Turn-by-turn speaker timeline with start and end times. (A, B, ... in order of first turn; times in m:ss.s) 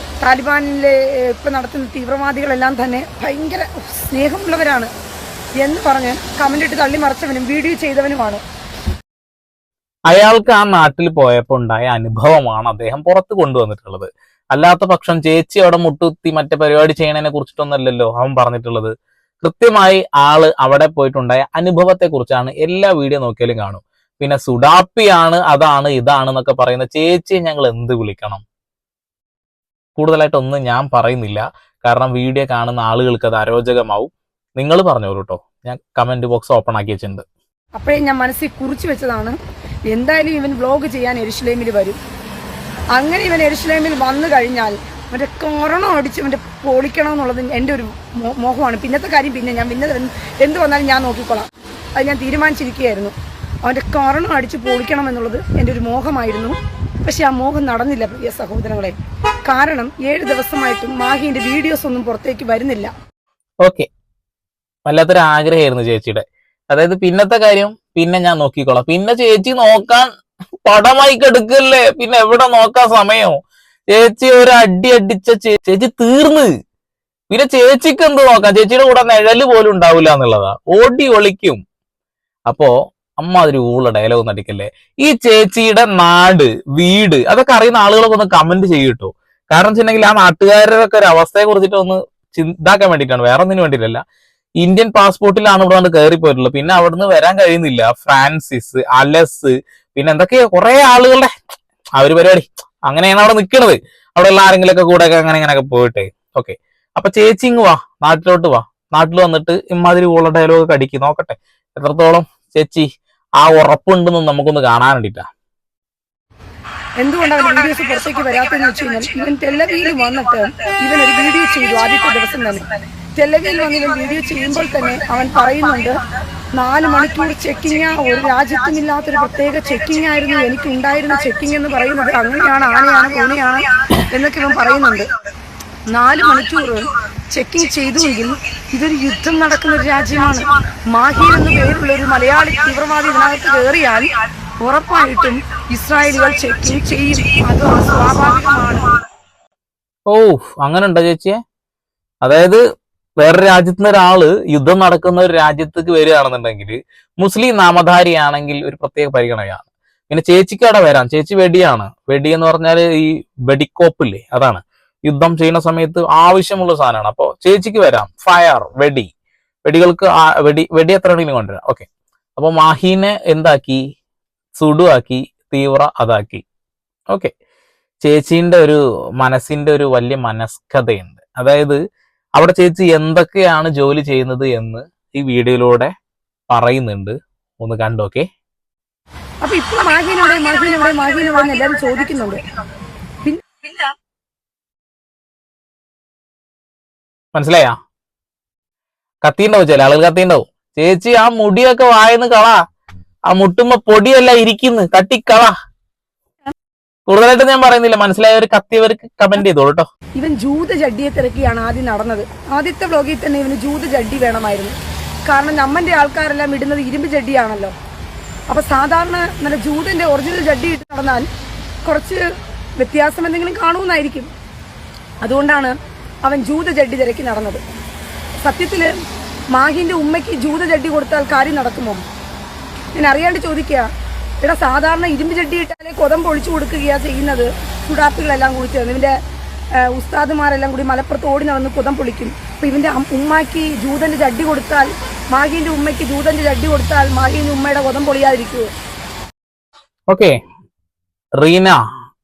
0:00.2-0:04.9 A
0:05.6-0:08.4 A
0:10.1-0:28.4 B
0:30.0-0:37.2 B
0:37.8-0:39.4 A
0:39.9-0:42.0 A
0:43.0-0:59.0 A
0:59.5-1:02.9 A
1:04.9-1:10.1 B
1:10.7-1:13.4 B
1:13.9-1:16.5 B
1:17.3-1:21.6 B
1:22.5-1:34.0 B
1:34.6-1:41.3 B
1:42.0-1:52.9 B
1:53.4-1:55.2 B
1:57.0-2:06.0 A
2:06.6-2:15.1 A
2:15.9-2:28.9 A
2:30.1-2:31.4 B
2:32.2-2:32.6 B
2:33.2-2:49.1 B
2:49.6-2:53.8 B
2:54.6-2:56.4 B
2:58.0-3:01.8 B
3:02.4-3:05.9 B
3:06.5-3:08.3 B
3:09.4-3:12.4 A
3:13.2-3:13.8 A
3:17.3-3:17.8 B
3:19.2-3:22.6 B
3:23.3-3:25.5 B
3:27.1-3:29.9 B
3:30.2-3:34.8 A
3:35.3-3:37.8 A
3:38.5-3:41.3 A
3:41.8-3:42.2 A
3:42.8-3:44.3 A
3:45.2-3:47.6 A
3:48.4-3:48.9 A
3:49.5-3:52.0 A
3:53.0-3:53.9 A
3:54.4-3:59.1 A
3:59.8-4:08.7 A
4:10.1-4:10.4 B
4:11.4-4:11.8 B